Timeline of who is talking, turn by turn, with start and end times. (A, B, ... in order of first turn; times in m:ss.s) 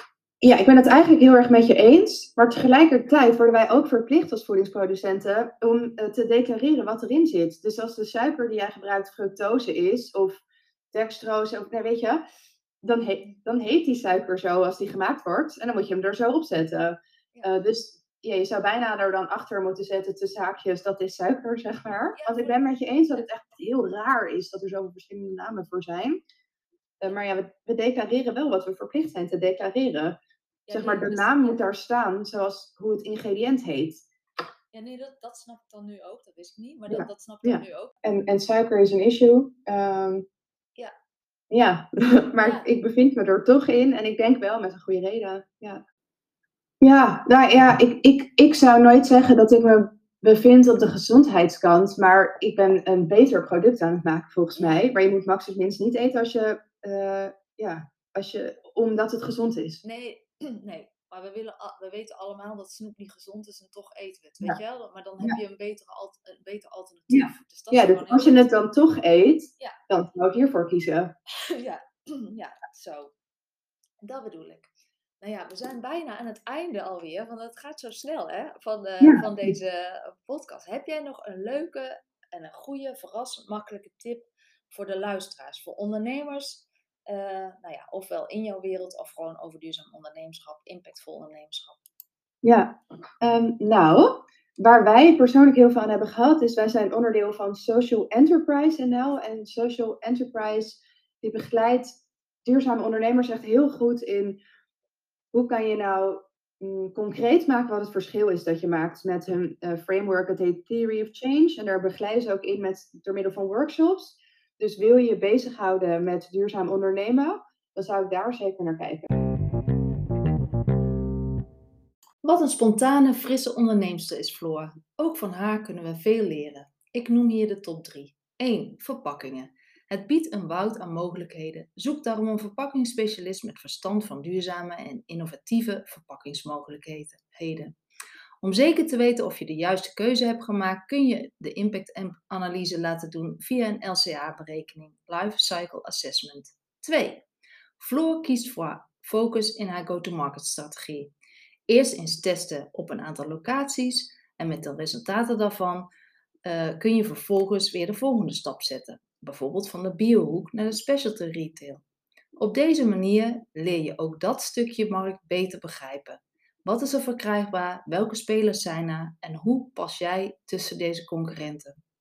0:00.4-0:10.4 A
0:10.9-0:12.2 A
0:12.8-0:26.2 A
0:17.3-0:17.6 B
0:22.1-0:22.6 B
0:27.0-0:30.2 A
0:30.7-0:31.6 B
0:30.7-0:34.0 A
0:34.7-0:37.9 B
0:36.9-0:40.2 A
0:41.5-0:45.8 A
0:42.4-0:42.7 B
0:46.8-0:59.8 A
0:59.8-1:08.5 B
1:07.1-1:11.1 A
1:11.4-1:13.1 B
1:14.0-1:14.7 B
1:15.2-1:31.8 B
1:19.0-1:19.5 A
1:32.4-1:44.4 A
1:45.3-1:59.1 A
2:02.2-2:17.8 B
2:18.4-2:27.2 B
2:27.8-2:31.1 B
2:31.7-2:35.9 B
2:36.4-2:41.8 B
2:42.4-2:51.8 B